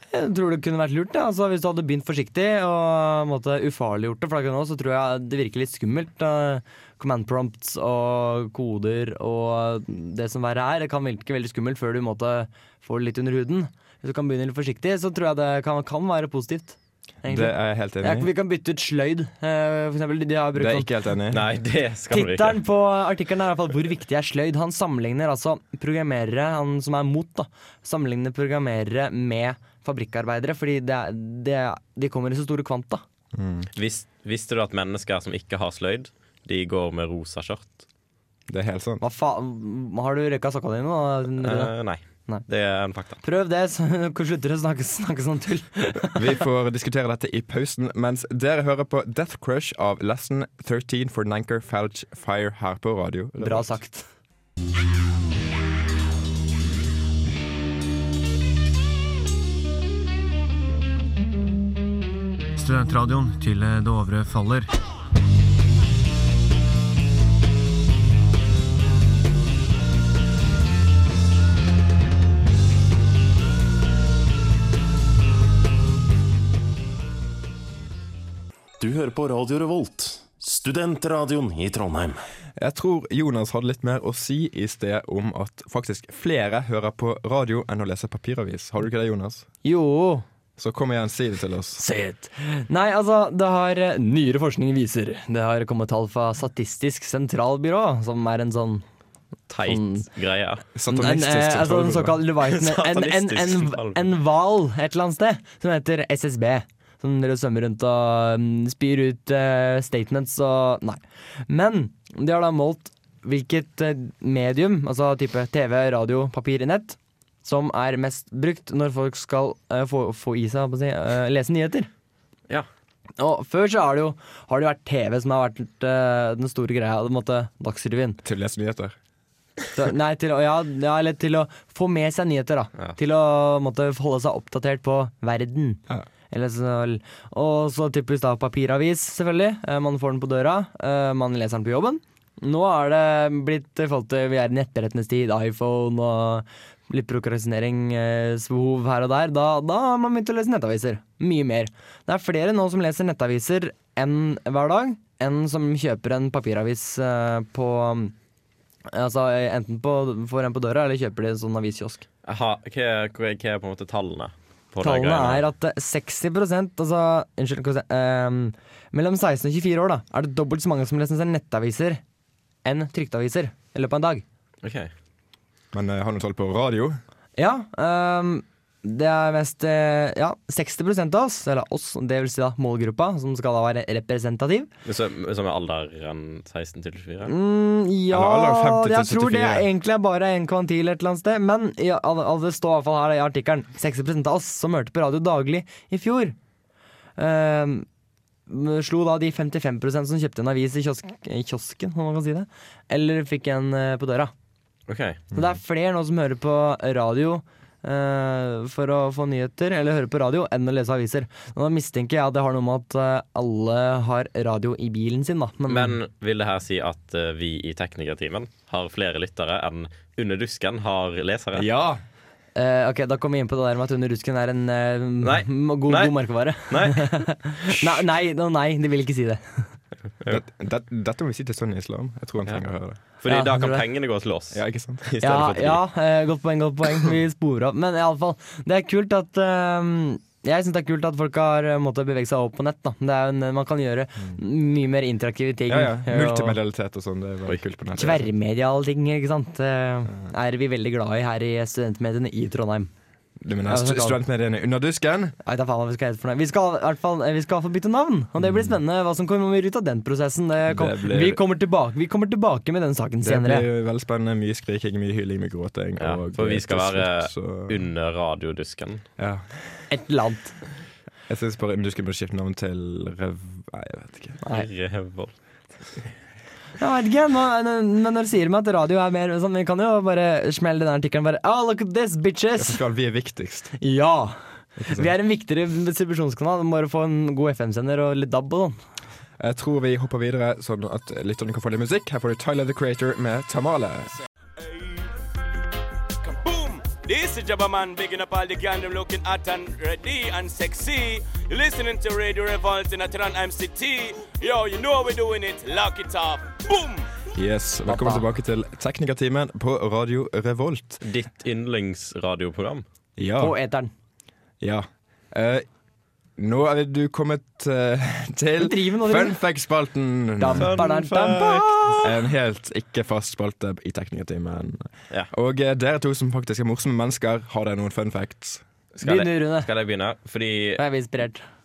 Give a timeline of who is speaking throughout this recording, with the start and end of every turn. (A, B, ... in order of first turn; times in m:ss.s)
0:00.1-0:20.9 A
0:17.2-0:18.3 B
0:20.5-0:21.5 B
0:21.3-0:22.6 C
0:22.1-0:33.0 A
0:33.3-0:33.7 B
0:33.8-0:37.8 C
0:38.5-0:39.0 B
0:39.0-0:41.7 A
0:41.4-0:43.2 C
0:43.2-0:46.2 A
0:46.1-0:53.8 B
0:53.4-0:54.1 A
1:02.6-1:04.7 D
1:18.8-1:22.2 E
1:22.6-1:29.5 B
1:29.6-1:30.2 A
1:30.6-1:31.8 B
1:31.8-1:38.8 A
1:39.5-1:40.6 C
1:39.6-1:40.0 A
1:40.7-1:42.2 B
1:40.9-2:01.9 A
1:42.4-1:44.1 C
2:03.2-2:08.2 A
2:08.2-2:09.0 B
2:09.7-2:38.1 A
2:38.9-2:42.0 A
2:42.2-2:45.4 C
2:44.8-2:52.0 A
2:52.6-2:54.2 A
2:54.6-2:54.9 C
2:55.7-2:57.0 B
2:57.4-3:04.7 A
3:04.8-3:07.3 C
3:07.2-3:16.3 A
3:08.1-3:09.7 B
3:17.2-3:17.8 A
3:18.5-3:24.3 A
3:24.9-3:25.2 C
3:25.3-3:36.0 A
3:35.7-3:41.6 C
3:41.5-3:42.0 B
3:42.6-3:49.7 A
3:45.2-3:46.1 C
3:46.7-3:47.8 C
3:50.3-3:53.0 B
3:53.2-3:55.8 C
3:53.2-3:53.8 A
3:54.5-3:55.1 B
3:55.2-4:06.6 A
4:05.7-4:08.3 B
4:08.0-4:12.9 A
4:13.4-4:15.4 B
4:13.7-4:14.2 A
4:15.4-4:23.6 A
4:18.4-4:18.8 B
4:20.7-4:21.4 B
4:23.2-4:27.9 B
4:26.0-4:29.0 C
4:29.2-4:29.5 B
4:29.9-4:30.6 A
4:31.3-4:34.4 B
4:34.5-4:35.3 C
4:36.8-4:42.8 A
4:42.6-4:43.8 B
4:43.8-4:48.8 A
4:44.8-4:45.1 B
4:49.4-4:54.1 B
4:54.6-4:55.1 F
4:56.2-5:07.1 F
5:07.3-5:11.0 B
5:07.9-5:08.2 A
5:11.0-5:12.8 C
5:13.2-5:13.6 B
5:13.4-5:13.9 A
5:14.6-5:15.6 B
5:16.4-5:20.8 B
5:18.6-5:19.4 A
5:20.4-5:22.0 A
5:20.6-5:22.0 C
5:22.0-5:28.6 B
5:28.9-5:30.8 C
5:29.0-5:29.7 A
5:30.8-5:31.4 A